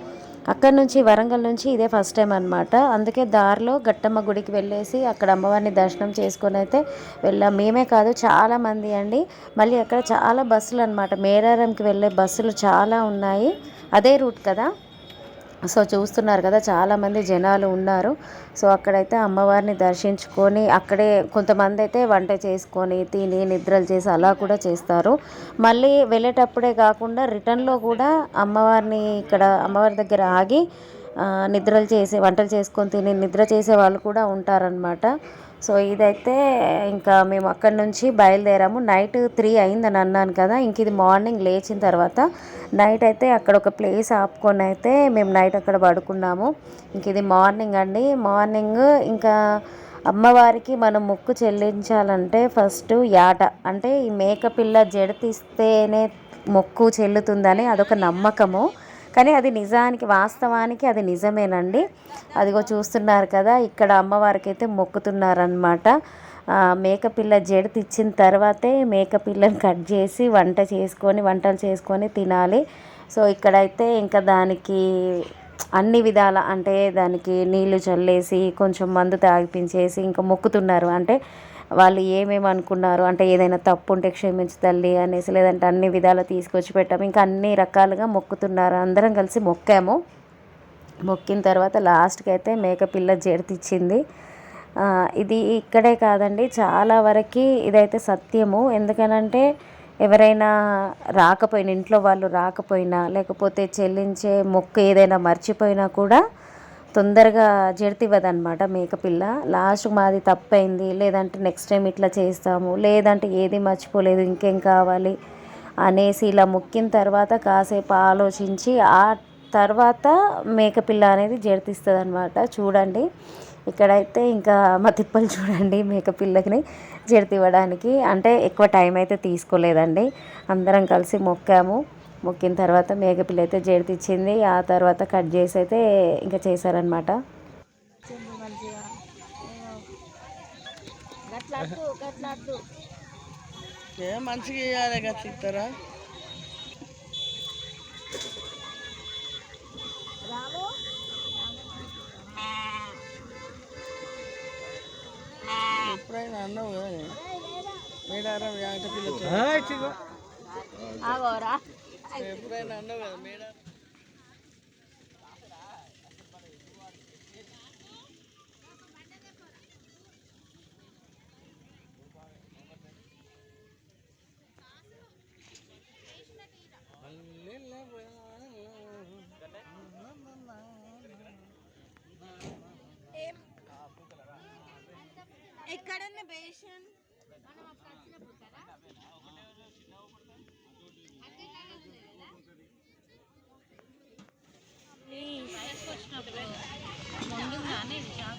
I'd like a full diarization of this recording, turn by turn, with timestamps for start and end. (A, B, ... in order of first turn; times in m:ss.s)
0:00.5-0:14.7 A
0:15.7-0:30.6 A
0:31.3-0:35.1 A
0:35.6-0:36.4 A
0:36.9-0:42.3 A
0:42.8-0:49.3 A
0:50.1-1:01.8 A
1:02.4-1:05.9 A
1:06.8-1:12.6 A
1:13.2-1:14.8 A
1:15.8-1:21.2 A
1:21.8-1:30.0 A
1:31.1-1:34.0 A
1:35.2-1:39.4 A
1:40.0-1:40.5 A
1:41.2-1:46.2 A
1:47.0-1:55.2 A
1:55.8-2:03.0 A
2:03.7-2:17.1 A
2:18.1-2:18.7 B
2:19.5-2:19.8 B
2:21.3-2:22.6 B
2:24.0-2:25.6 C
2:30.3-2:30.7 B
2:35.8-2:37.1 C
2:38.1-2:39.8 C
2:41.0-2:41.6 B
2:42.2-2:43.2 C
3:05.7-3:06.4 B